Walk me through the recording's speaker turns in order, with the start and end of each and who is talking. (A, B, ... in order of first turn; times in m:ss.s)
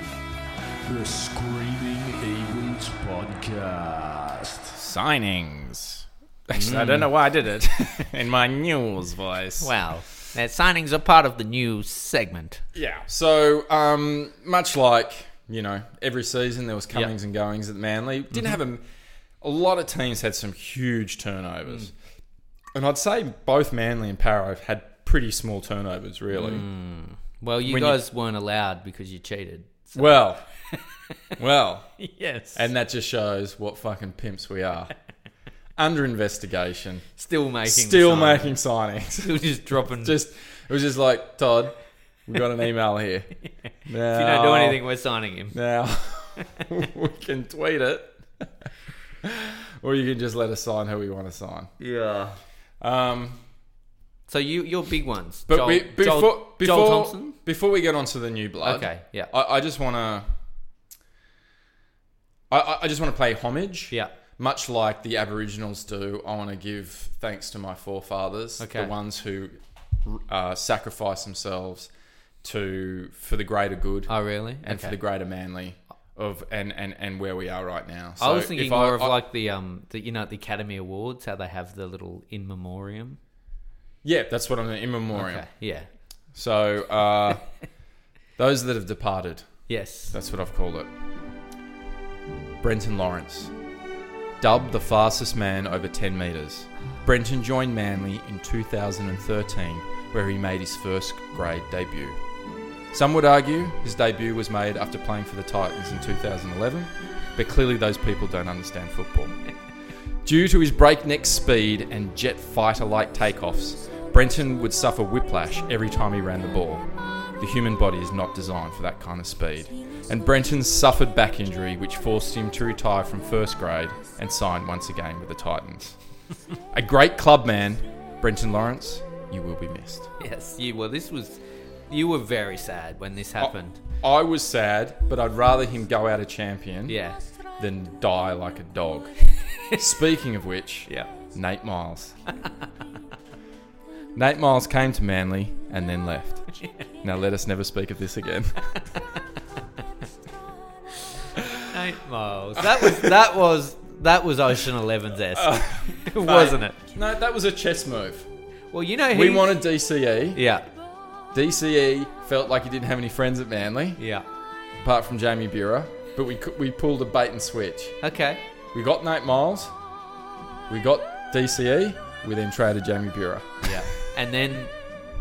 0:00.8-0:04.7 A
0:04.7-0:09.7 B
0:06.5-0:07.1 C
0:09.6-0:12.6 C
0:12.8-0:18.8 B
0:19.4-0:21.9 B
0:22.7-0:26.7 B
0:26.3-0:30.2 C
0:27.7-0:28.0 B
0:30.0-0:30.5 B
0:31.4-0:32.0 B
0:32.0-0:32.7 C
0:32.5-0:34.9 B
0:35.8-0:37.1 B
0:37.2-0:38.6 C
0:37.6-0:41.8 B
0:39.2-0:40.2 C
0:42.3-0:43.3 B
0:43.8-0:44.8 B
0:44.0-0:45.6 C
0:45.5-0:48.2 B
0:49.2-0:51.7 B
0:51.8-0:52.4 C
0:52.8-0:53.4 B
0:54.3-0:57.4 C
0:55.5-1:00.3 B
0:58.6-0:59.3 C
1:02.5-1:11.9 B
1:08.6-1:08.9 C
1:12.4-1:19.2 B
1:14.1-1:15.0 C
1:18.2-1:23.2 C
1:24.0-1:25.5 B
1:25.1-1:25.9 C
1:26.3-1:27.5 B
1:28.4-1:30.9 B
1:29.7-1:30.2 C
1:32.6-1:33.5 B
1:34.4-1:42.2 B
1:42.9-1:49.4 B
1:50.2-1:56.9 B
1:57.4-2:06.0 B
2:06.7-2:10.1 B
2:10.2-2:13.8 C
2:13.4-2:17.0 B
2:16.9-2:17.2 C
2:17.6-2:19.2 B
2:19.7-2:22.2 B
2:24.2-2:28.7 B
2:31.7-2:36.8 C
2:32.6-2:33.2 B
2:35.3-2:38.3 B
2:38.7-2:39.7 C
2:39.1-2:40.4 B
2:40.3-2:40.7 C
2:41.3-2:44.0 B
2:44.0-2:44.2 C
2:44.8-2:48.0 B
2:48.0-2:48.4 C
2:48.7-2:49.8 B
2:50.7-2:53.8 B
2:53.6-2:54.7 C